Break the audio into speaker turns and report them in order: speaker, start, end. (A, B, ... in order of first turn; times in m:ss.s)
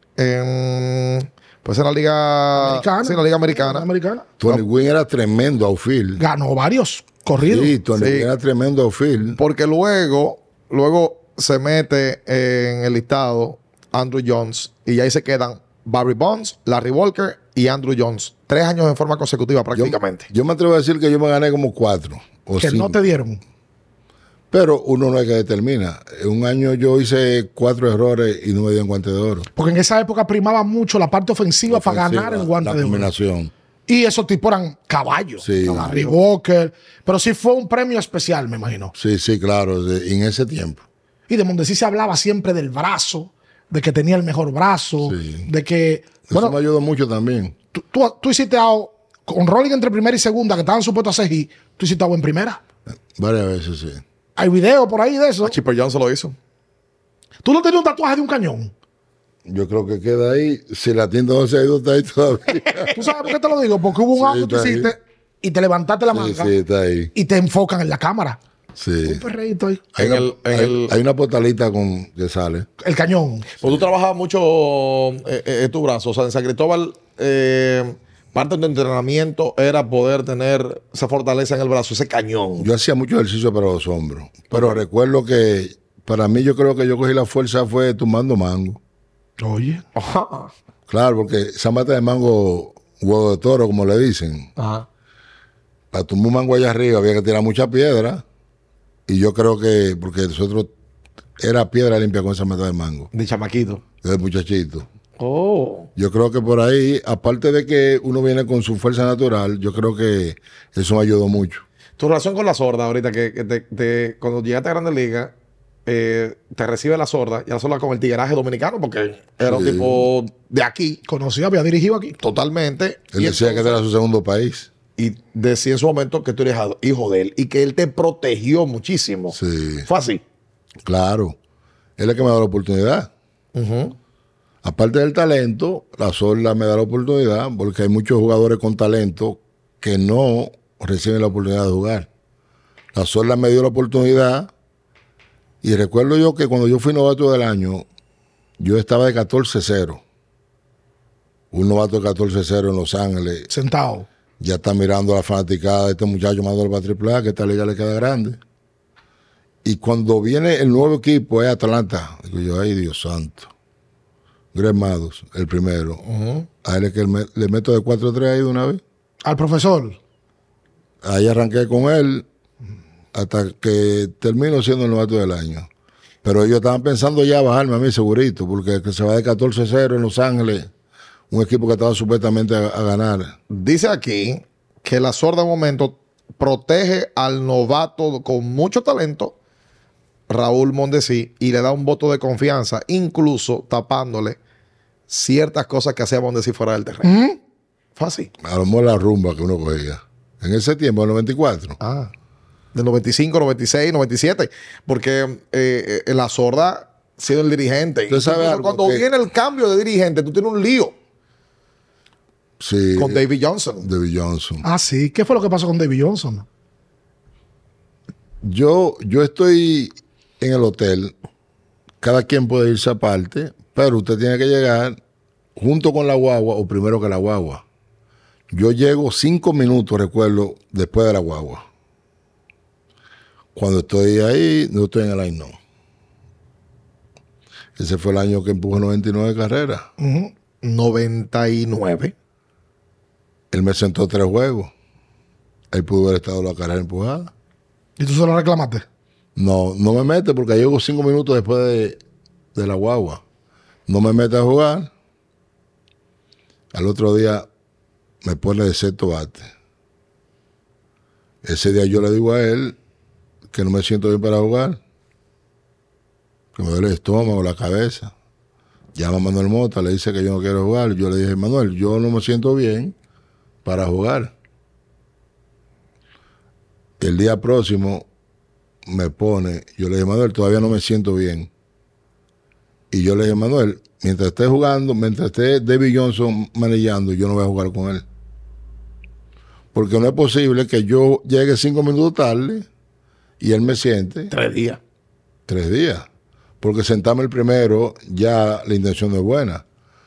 0:00.2-0:03.9 A
0:02.6-0:04.3 B
0:04.4-0:06.2 C
0:06.2-0:07.8 B
0:07.5-0:09.4 C
0:08.0-0:08.3 A
0:09.4-0:20.3 A
0:19.7-0:23.0 C
0:22.6-0:23.4 B
0:24.5-0:29.5 C
0:29.6-0:33.1 B
0:31.7-0:33.5 C
0:33.9-0:38.9 B
0:35.4-0:36.0 C
0:35.8-0:36.1 A
0:38.9-0:40.8 C
0:41.3-0:46.6 B
0:45.0-0:45.5 C
0:46.3-0:47.5 C
0:47.7-0:52.6 B
0:53.2-0:54.0 C
0:54.4-0:55.6 B
0:55.4-0:56.3 A
0:57.4-0:58.7 B
0:59.4-1:03.0 C
1:02.9-1:06.6 B
1:04.1-1:04.9 C
1:06.1-1:07.1 C
1:07.1-1:08.4 B
1:08.8-1:09.2 C
1:09.0-1:09.8 B
1:10.0-1:10.9 A
1:10.0-1:12.7 C
1:12.8-1:13.5 B
1:13.6-1:22.7 A
1:22.6-1:28.8 C
1:24.5-1:24.8 A
1:29.4-1:29.8 B
1:29.9-1:30.5 A
1:30.9-1:34.5 C
1:34.6-1:34.9 A
1:35.9-1:38.2 C
1:39.1-1:40.7 C
1:41.4-1:43.1 C
1:43.1-1:43.8 A
1:44.0-1:44.9 C
1:45.2-1:45.9 A
1:46.0-1:51.6 C
1:52.0-1:55.3 A
1:55.8-2:01.0 A
1:59.4-2:00.1 C
2:01.0-2:02.2 B
2:02.2-2:03.8 A
2:03.1-2:04.7 C
2:05.0-2:10.2 A
2:09.3-2:09.9 C
2:10.8-2:11.4 C
2:12.0-2:13.1 C
2:13.5-2:13.9 A
2:14.6-2:22.1 C
2:22.9-2:24.5 C
2:25.6-2:27.8 C
2:28.6-2:30.0 C
2:31.5-2:33.5 C
2:33.5-2:34.1 B
2:34.4-2:38.4 C
2:39.6-2:43.5 C
2:44.5-2:46.0 C
2:46.0-2:46.5 A
2:46.6-2:48.8 C
2:49.2-2:50.0 B
2:51.0-2:52.3 C
2:53.1-2:55.7 C
2:56.2-3:00.7 C
3:01.3-3:03.3 C
3:03.5-3:09.3 A
3:10.3-3:14.4 A
3:15.1-3:17.1 A
3:17.0-3:17.4 B
3:18.0-3:18.3 A
3:18.4-3:21.8 C
3:21.8-3:22.1 A
3:22.7-3:30.9 A
3:28.1-3:29.1 C
3:32.6-3:33.2 C
3:33.0-3:33.9 A
3:33.8-3:34.6 C
3:34.6-3:36.4 B
3:38.4-3:41.1 C
3:42.0-3:45.0 C
3:45.6-3:47.6 C
3:48.5-3:51.6 C
3:53.5-3:55.6 C
3:57.8-3:59.9 C
4:00.0-4:00.3 B
4:00.6-4:02.1 A
4:03.5-4:04.7 C
4:05.7-4:07.3 C
4:08.0-4:08.8 B
4:09.4-4:12.0 C
4:12.5-4:13.2 C
4:13.9-4:14.9 C
4:16.7-4:17.5 C
4:18.2-4:19.5 C
4:21.4-4:22.8 C
4:23.5-4:24.8 C
4:26.5-4:28.1 C
4:28.9-4:32.9 C
4:33.6-4:34.3 C
4:37.0-4:38.0 C
4:38.8-4:41.5 C
4:42.9-4:48.0 C
4:49.7-4:52.7 C
4:53.4-4:54.3 C
4:54.3-4:54.8 A
4:55.5-4:56.0 C
4:56.6-4:59.6 C